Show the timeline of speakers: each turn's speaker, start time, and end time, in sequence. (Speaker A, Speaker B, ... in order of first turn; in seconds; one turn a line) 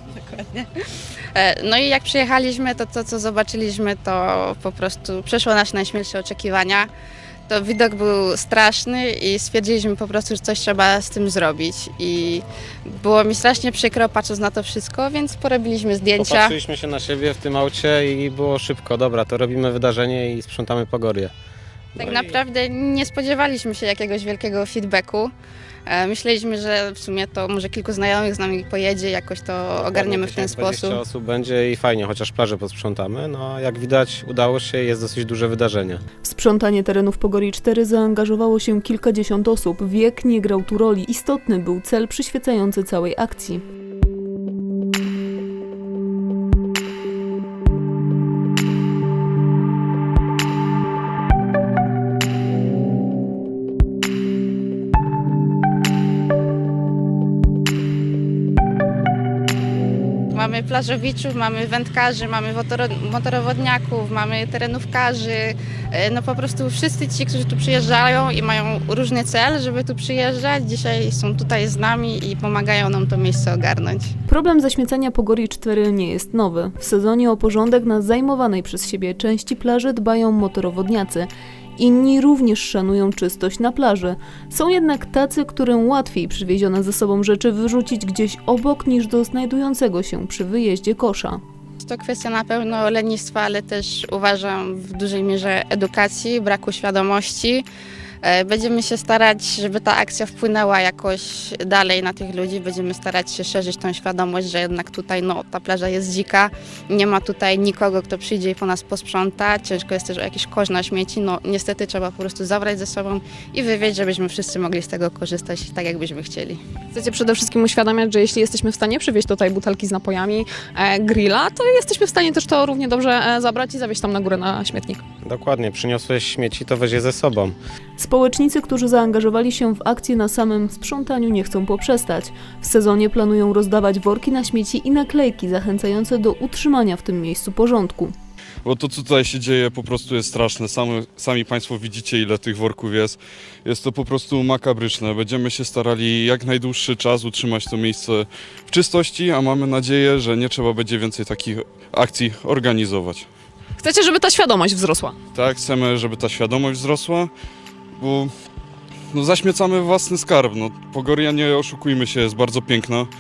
Speaker A: 0.1-0.7
Speaker A: 1.4-6.9
Speaker A: 7.5-16.6
Speaker B: 16.2-21.3
Speaker A: 22.0-25.3
Speaker B: 22.0-22.4
Speaker A: 25.9-31.0
Speaker B: 29.8-36.0
Speaker C: 36.2-43.6
Speaker A: 60.3-74.1
Speaker C: 74.3-91.4
Speaker A: 91.8-97.7
Speaker A: 98.2-116.6
Speaker D: 116.9-125.0
Speaker B: 125.2-127.6
Speaker C: 128.0-138.1
Speaker E: 138.7-153.3
Speaker D: 153.8-155.2
Speaker E: 155.3-157.3
Speaker E: 158.0-158.3
Speaker E: 159.1-163.1